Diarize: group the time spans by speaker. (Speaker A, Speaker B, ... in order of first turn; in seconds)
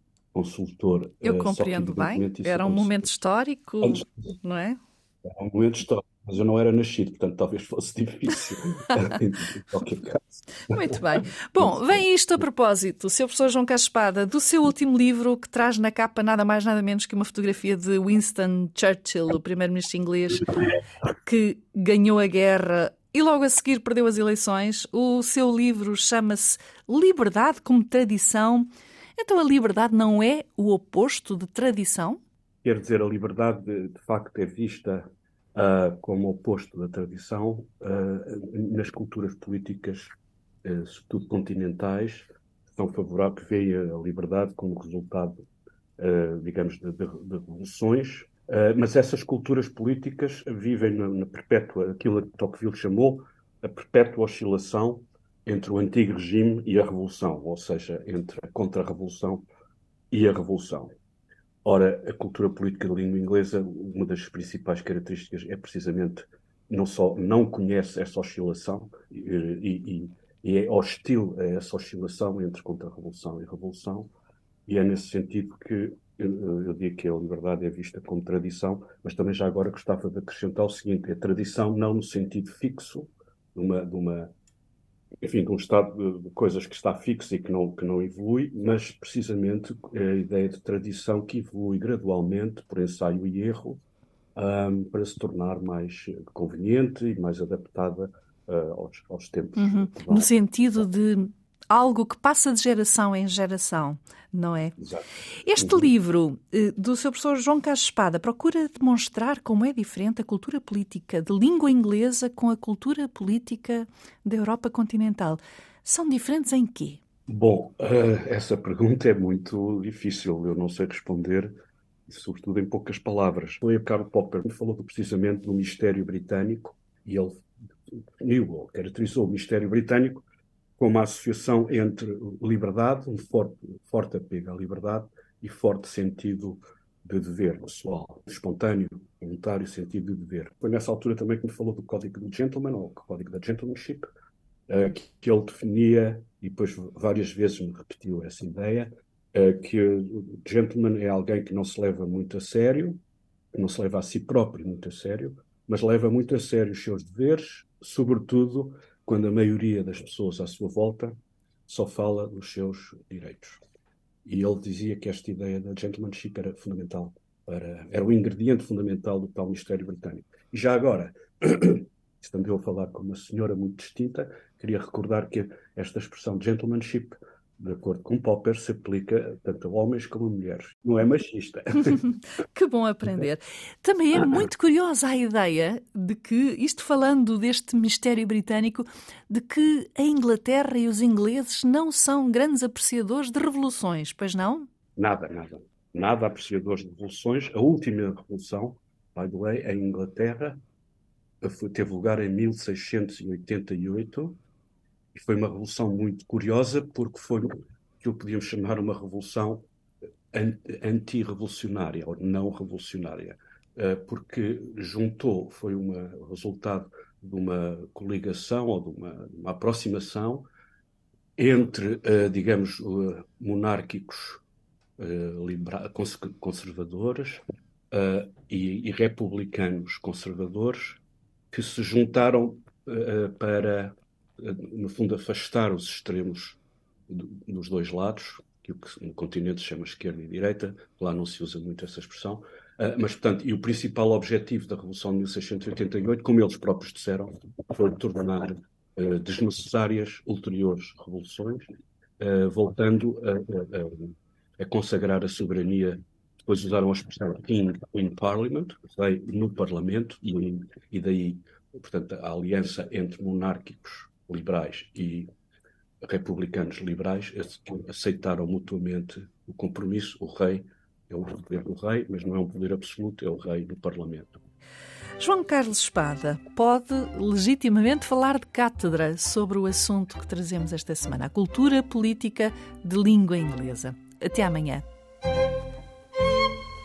Speaker A: 0.3-3.0, 5.2-10.8, 32.6-35.0, 35.5-40.1, 40.6-45.3, 46.0-59.4, 60.1-60.9, 61.6-74.1, 74.7-84.3, 85.2-93.8, 94.3-100.3, 104.8-105.0, 105.6-105.9, 117.3-121.5, 122.1-130.2, 130.8-144.1, 144.7-153.0, 153.5-161.1, 161.7-163.6, 164.2-182.0, 195.0-200.6, 201.4-204.4, 205.1-209.7, 210.3-220.5, 221.4-224.4, 225.0-231.0, 231.5-251.7, 252.2-265.3, 266.0-274.4
Speaker B: 1.2-4.8, 10.7-32.2, 99.6-104.8, 105.4-117.0, 182.5-194.7, 275.2-284.8